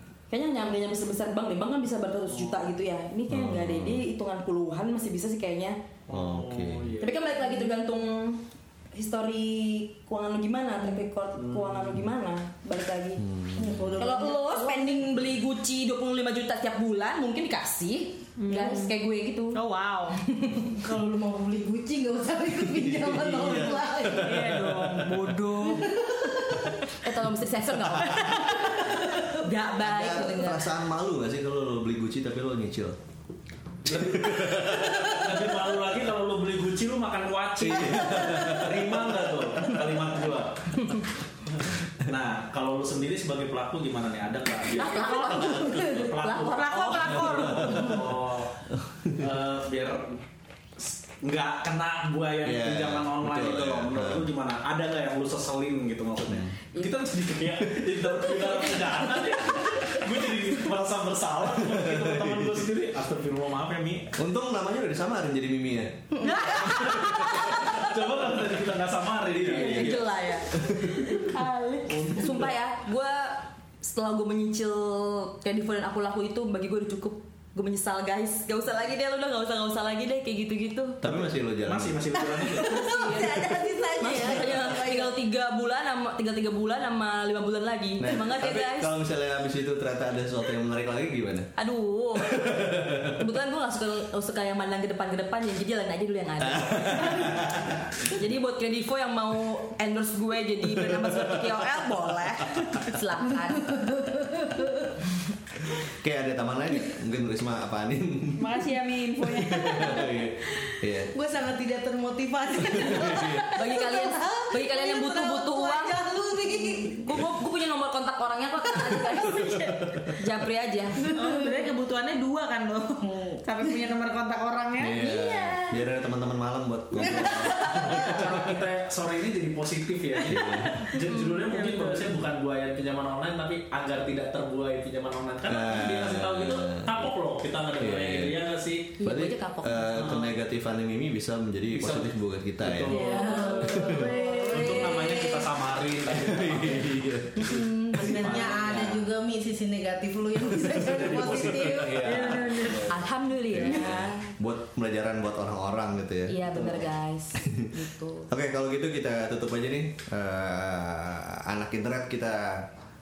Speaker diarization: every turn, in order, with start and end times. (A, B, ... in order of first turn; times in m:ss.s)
0:00.3-0:05.8 A
0:02.3-0:02.7 B
0:03.3-0:04.0 C
0:06.1-0:07.2 B
0:06.1-0:06.9 C
0:07.0-0:13.2 A
0:11.4-0:12.1 B
0:13.2-0:14.0 C
0:13.6-0:15.0 D
0:14.0-0:19.6 A
0:18.4-0:18.9 E
0:19.5-0:20.2 E
0:20.2-0:20.7 A
0:20.7-0:24.6 D
0:22.6-0:25.5 C
0:24.2-0:26.2 E
0:25.6-0:26.7 D
0:27.0-0:30.7 A
0:27.9-0:28.4 C
0:28.0-0:29.0 E
0:29.8-0:33.0 C
0:33.9-0:35.6 C
0:33.9-0:40.9 B
0:37.6-0:39.8 C
0:42.0-0:50.2 B
0:44.7-0:47.7 A
0:46.4-0:47.9 E
0:47.1-0:48.2 C
0:48.7-0:49.3 C
0:50.8-1:04.1 B
0:52.4-0:54.3 C
0:56.2-0:56.6 C
1:01.6-1:02.7 C
1:04.2-1:07.6 C
1:06.2-1:07.9 A
1:06.2-1:07.4 E
1:07.0-1:10.2 B
1:09.4-1:11.1 C
1:09.4-1:21.0 A
1:11.9-1:12.5 B
1:21.0-1:22.2 C
1:21.6-1:23.4 B
1:22.4-1:28.9 A
1:23.1-1:24.2 E
1:23.3-1:25.0 D
1:28.0-1:31.5 C
1:31.6-1:37.4 A
1:32.2-1:33.2 C
1:36.4-1:38.1 C
1:38.0-1:43.9 A
1:43.7-1:44.7 D
1:45.8-1:48.6 C
1:48.4-1:50.8 E
1:49.2-1:51.1 C
1:51.1-1:57.2 D
1:52.6-1:53.5 C
1:52.6-1:53.8 E
1:53.5-1:56.0 A
1:56.6-1:59.6 A
1:59.3-1:59.9 E
2:00.2-2:01.1 A
2:01.0-2:05.8 E
2:03.0-2:03.4 D
2:04.8-2:08.2 C
2:07.2-2:08.0 E
2:07.8-2:19.0 B
2:10.3-2:10.9 C
2:11.0-2:12.1 E
2:15.4-2:17.1 C
2:17.8-2:18.4 C
2:19.0-2:20.2 A
2:19.0-2:23.0 C
2:20.0-2:20.3 B
2:21.7-2:23.8 B
2:22.9-2:25.4 A
2:23.1-2:25.2 E
2:23.6-2:24.2 C
2:24.5-2:27.0 B
2:26.1-2:27.7 C
2:27.4-2:28.2 A
2:27.9-2:32.1 D
2:28.0-2:29.1 B
2:30.7-2:32.9 B
2:31.5-2:33.0 E
2:32.7-2:34.3 A
2:33.5-2:36.7 C
2:36.3-2:38.3 A
2:37.4-2:37.7 C
2:38.3-2:42.7 C